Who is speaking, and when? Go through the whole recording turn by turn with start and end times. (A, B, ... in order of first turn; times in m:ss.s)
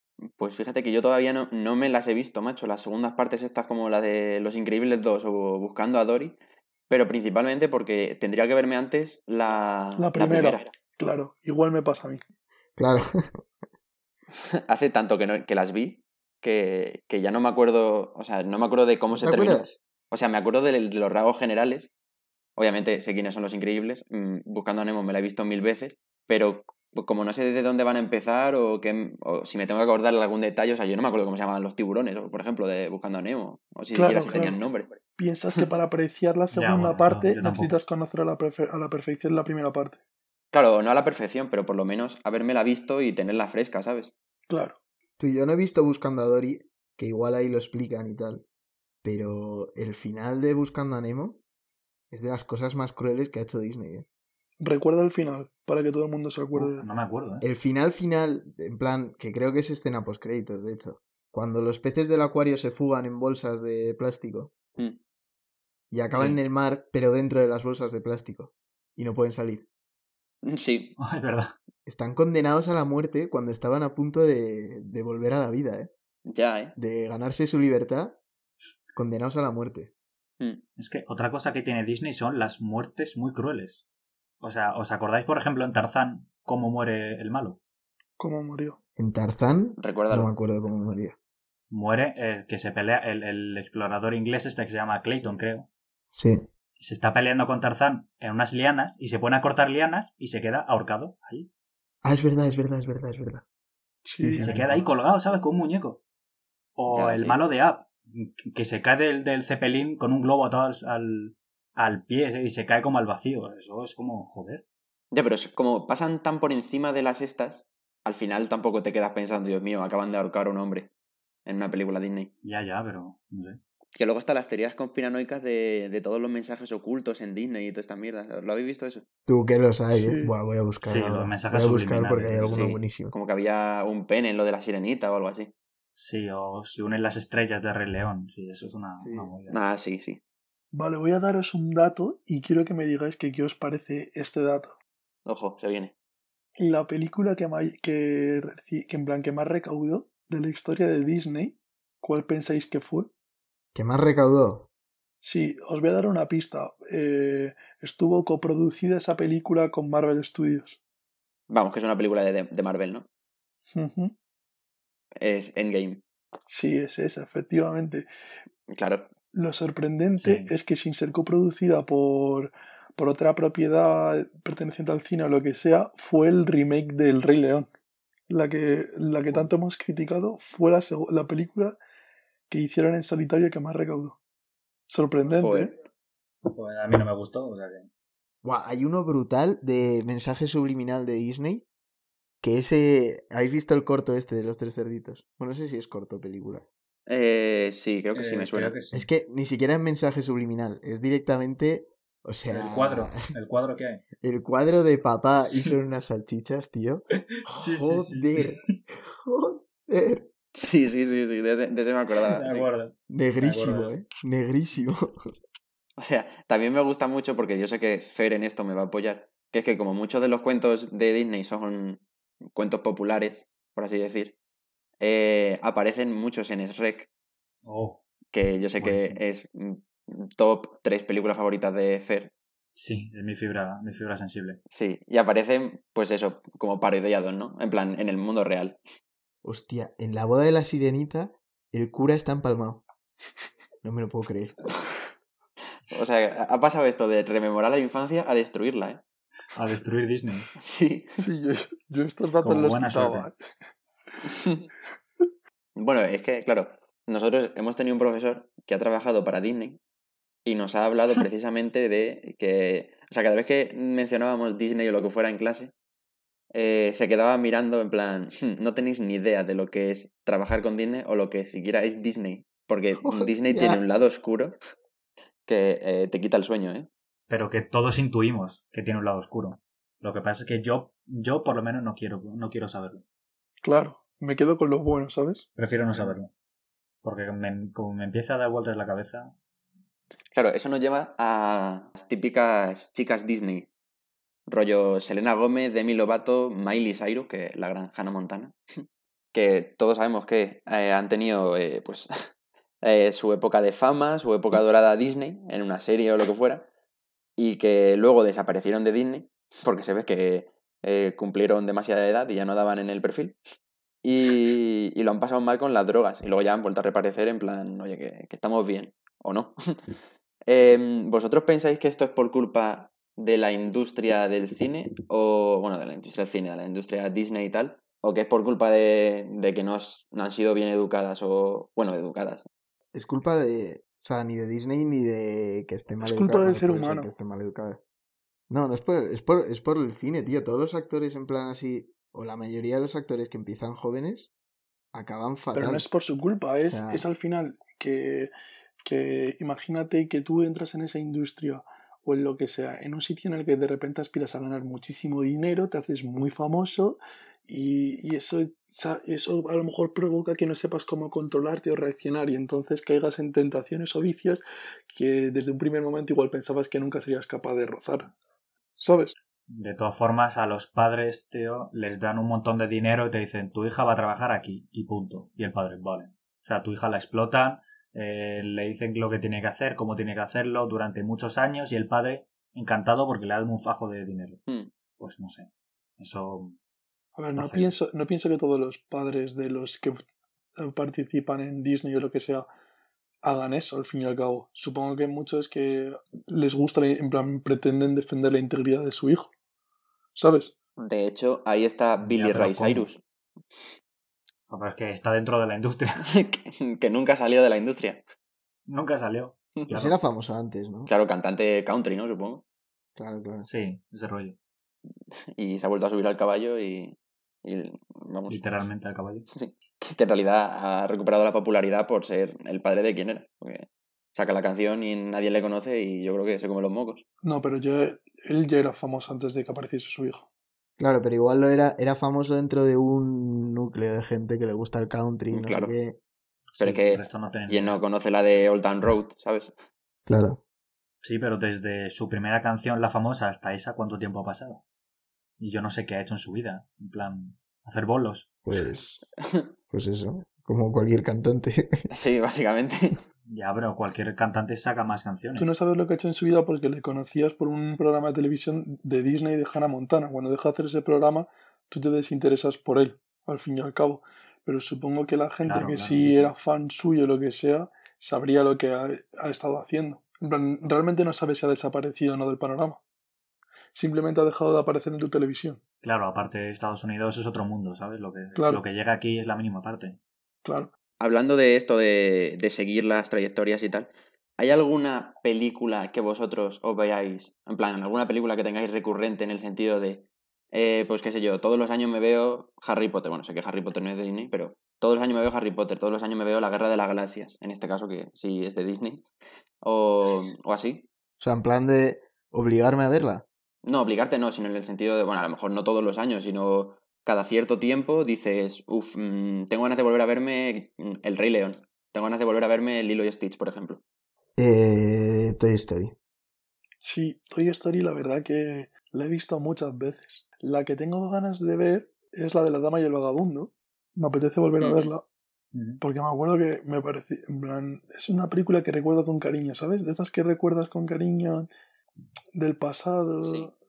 0:00.2-0:06.4 A
0:06.9-0:10.7 A
0:10.0-0:12.2 B
0:12.8-0:13.4 C
0:14.4-0:21.9 A
0:19.2-0:19.8 C
0:22.6-0:34.9 A
0:33.9-0:34.6 B
0:35.2-0:40.0 B
0:36.5-0:37.8 D
0:40.5-0:44.1 A
0:44.5-0:44.8 B
0:45.2-0:48.4 C
0:49.0-0:51.4 C
0:52.1-0:54.1 C
0:54.6-0:56.9 B
0:56.5-0:57.5 D
0:57.4-1:04.5 C
1:05.9-1:09.7 C
1:06.1-1:06.4 D
1:10.4-1:11.0 A
1:11.0-1:11.6 D
1:11.9-1:15.9 C
1:16.3-1:16.8 A
1:16.8-1:18.2 C
1:18.9-1:19.9 C
1:20.8-1:23.8 D
1:24.4-1:27.6 D
1:28.2-1:28.8 B
1:29.0-1:31.2 C
1:29.8-1:30.3 A
1:31.7-1:35.7 D
1:36.1-1:36.4 C
1:36.8-1:41.5 D
1:42.0-1:43.4 C
1:44.0-1:44.6 B
1:44.2-1:44.8 C
1:44.4-1:46.0 D
1:46.8-1:54.6 D
1:46.9-1:47.4 A
1:55.1-2:00.9 A
2:01.4-2:02.3 A
2:02.4-2:03.6 D
2:04.0-2:09.0 A
2:09.3-2:13.1 C
2:09.9-2:10.4 B
2:10.8-2:12.8 D
2:12.5-2:15.5 A
2:16.0-2:19.6 D
2:19.0-2:19.3 C
2:19.5-2:20.2 A
2:20.7-2:24.7 B
2:25.3-2:25.9 A
2:26.6-2:33.1 B
2:33.7-2:34.7 C
2:35.2-2:40.8 B
2:41.5-2:43.1 A
2:43.7-2:44.1 B
2:45.2-2:46.0 A
2:46.5-2:48.1 B
2:48.7-2:49.1 A
2:49.3-2:57.7 B
2:50.2-2:50.5 D
2:58.3-3:01.8 B
3:02.5-3:04.2 B
3:04.9-3:05.7 B
3:05.3-3:05.7 A
3:06.5-3:07.9 D
3:08.4-3:11.7 C
3:12.4-3:16.7 C
3:17.1-3:18.8 A
3:18.1-3:19.1 D
3:18.9-3:23.2 C
3:22.5-3:24.0 D
3:24.2-3:30.3 C
3:25.4-3:25.7 D
3:27.4-3:28.5 D
3:30.5-3:32.7 A
3:32.2-3:34.0 D
3:33.1-3:35.1 C
3:36.0-3:44.4 A
3:45.0-3:47.1 A
3:47.6-3:48.0 D
3:48.3-3:52.3 A
3:48.8-3:49.2 D
3:52.8-3:54.6 D
3:54.7-3:58.8 A
3:59.4-4:02.8 C
4:03.8-4:04.7 C
4:05.9-4:09.0 A
4:09.5-4:10.5 D
4:10.6-4:11.2 A
4:11.2-4:13.5 B
4:12.4-4:13.3 D
4:14.3-4:14.7 A
4:15.8-4:19.8 A
4:20.4-4:25.7 A
4:26.5-4:34.6 A
4:33.0-4:33.8 C
4:35.4-4:36.9 A
4:37.3-4:43.0 D
4:43.6-4:45.5 B
4:45.6-4:46.3 D
4:47.0-4:49.3 D
4:50.3-4:53.7 A
4:54.5-4:58.6 A
4:59.3-5:02.1 A
5:02.8-5:06.7 A
5:07.4-5:13.4 A
5:14.0-5:19.6 A
5:20.5-5:32.5 A
5:32.9-5:37.8 C
5:36.0-5:37.1 B
5:38.5-5:44.3 C
5:44.9-5:45.8 C
5:45.5-5:48.3 B
5:46.7-5:47.0 C
5:48.8-6:08.1 B
6:08.8-6:09.2 B
6:09.5-6:24.4 D
6:25.0-6:26.6 D
6:27.2-6:30.0 B
6:27.4-6:27.8 D
6:30.6-6:32.5 B
6:33.2-6:39.3 B
6:40.2-6:40.5 B
6:40.8-6:43.0 A
6:42.0-6:42.9 D
6:44.5-6:46.0 D
6:46.0-6:48.0 A
6:48.7-6:50.0 D
6:49.7-6:50.9 C
6:50.9-6:52.4 A
6:53.0-6:53.5 C
6:53.4-6:54.4 D
6:55.4-6:58.7 A
6:58.3-6:59.3 D
6:59.3-7:07.0 A
7:07.2-7:10.3 B
7:10.8-7:16.0 C
7:15.3-7:15.7 A
7:16.5-7:17.8 D
7:16.6-7:19.6 A
7:20.1-7:20.4 C
7:21.0-7:24.6 D
7:25.4-7:28.4 D
7:28.4-7:29.0 C
7:29.7-7:31.9 C
7:31.9-7:33.0 A
7:33.3-7:35.5 D
7:35.4-7:52.8 B
7:45.4-7:46.3 D
7:53.7-7:55.6 B
7:55.8-8:00.0 D
7:58.4-7:58.6 B
8:00.4-8:00.7 B
8:01.0-8:19.1 A
8:19.6-8:20.9 A
8:21.2-8:23.2 C
8:23.6-8:33.8 A
8:34.4-8:35.9 C
8:36.8-8:45.0 B
8:44.6-8:44.9 A
8:45.5-8:45.8 D
8:45.8-8:51.5 B
8:52.4-8:53.5 B
8:53.2-8:53.5 A